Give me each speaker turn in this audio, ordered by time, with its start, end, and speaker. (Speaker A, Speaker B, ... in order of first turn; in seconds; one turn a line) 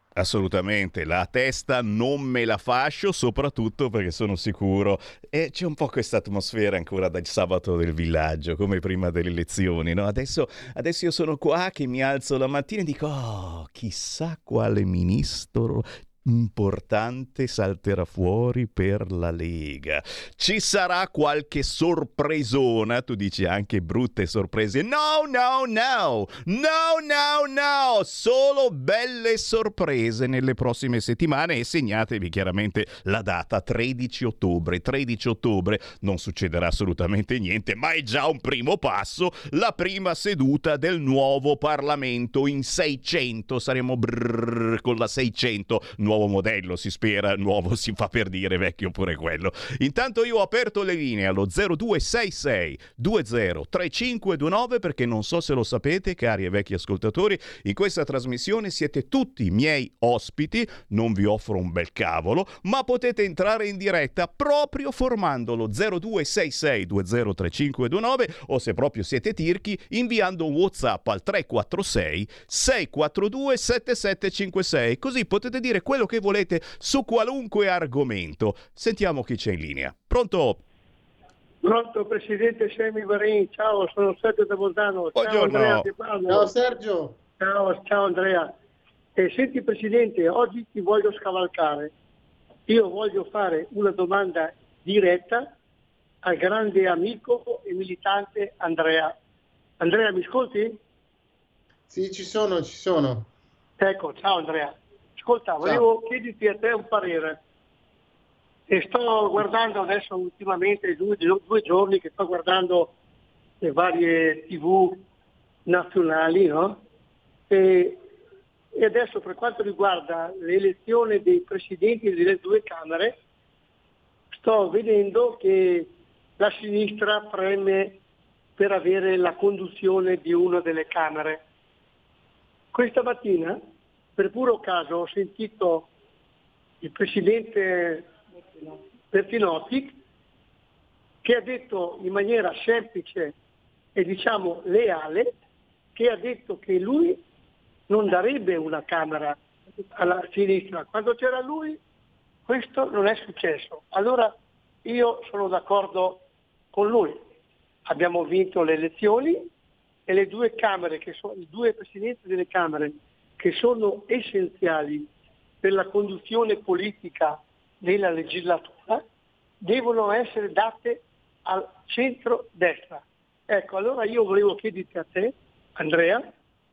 Speaker A: 0.1-80.6
Speaker B: 81.6-86.5
Speaker A: 85.1-85.9
Speaker C: 86.3-87.2
Speaker B: 87.4-88.5
Speaker B: 89.2-91.9
Speaker B: 92.7-95.5
Speaker B: 96.2-99.1
Speaker B: 99.8-100.8
Speaker C: 101.9-103.3
Speaker B: 103.8-107.4
Speaker B: 108.7-112.9
Speaker B: 113.6-115.0
Speaker B: 115.7-116.8
Speaker B: 117.5-118.0
Speaker B: 118.8-123.2
Speaker B: 124.3-128.0
Speaker B: 128.6-131.4
Speaker B: 132.7-133.6
Speaker B: 134.2-135.9
Speaker B: 136.8-138.1
Speaker B: 139.1-140.0
Speaker B: 141.2-143.3
Speaker B: 143.9-145.3
Speaker B: 145.9-147.2
Speaker B: 147.9-149.4
Speaker B: 149.9-151.8
Speaker B: 152.5-154.3
Speaker B: 154.8-156.2
Speaker B: 156.7-157.2
Speaker B: 157.9-159.5
Speaker B: 160.1-165.1
Speaker B: 165.6-169.0
Speaker B: 169.6-176.2